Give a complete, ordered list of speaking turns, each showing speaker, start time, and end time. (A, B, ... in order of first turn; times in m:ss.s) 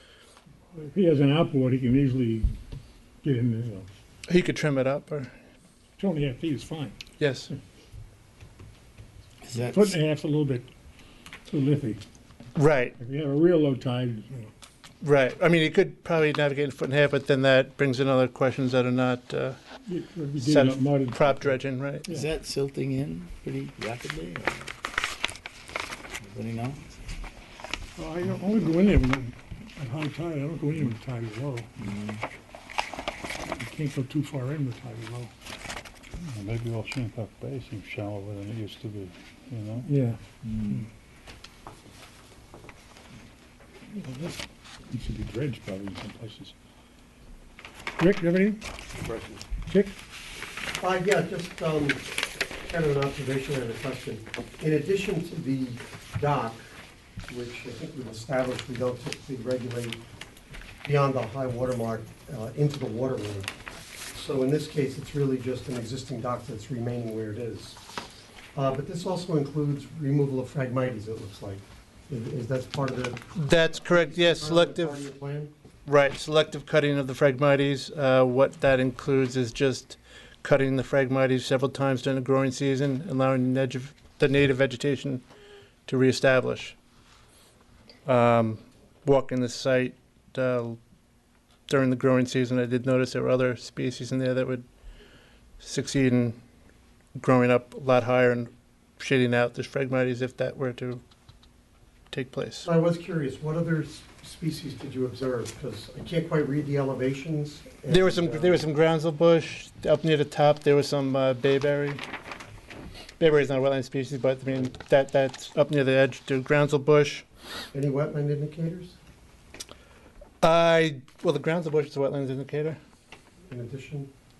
0:00.7-0:02.6 A
0:03.2-0:03.9 A
0:04.3-0:05.3 B
0:06.0-0:07.0 A
0:07.2-0:07.5 B
0:09.4-0:09.9 C
0:09.7-0:10.7 A
0:11.5-0:12.0 A
0:12.6-0:13.0 B
0:13.0-0:14.5 A
0:15.0-0:19.6 B
0:19.8-0:22.3 A
0:20.4-0:22.1 B
0:22.1-0:24.7 C
0:26.2-0:27.0 C
0:28.0-0:31.7 A
0:31.8-0:32.2 C
0:33.4-0:35.3 A
0:36.2-0:39.9 D
0:39.8-0:40.8 A
0:43.9-0:46.5 A
0:48.0-0:48.6 A
0:49.0-0:49.4 C
0:49.6-0:50.0 A
0:50.8-0:52.1 E
0:52.6-0:56.6 E
0:57.3-1:00.0 E
1:00.8-1:03.5 E
1:04.1-1:07.8 E
1:08.5-1:15.5 E
1:13.4-1:15.0 B
1:15.8-1:25.2 B
1:25.9-1:26.8 B
1:28.0-1:30.8 B
1:31.7-1:34.6 B
1:35.6-1:36.4 B
1:37.2-1:41.0 B
1:42.1-1:42.7 B
1:42.6-1:48.6 E
1:47.9-1:52.0 B
1:53.2-1:57.2 B
1:57.7-1:59.0 E
2:00.4-2:02.8 B
2:03.5-2:04.1 E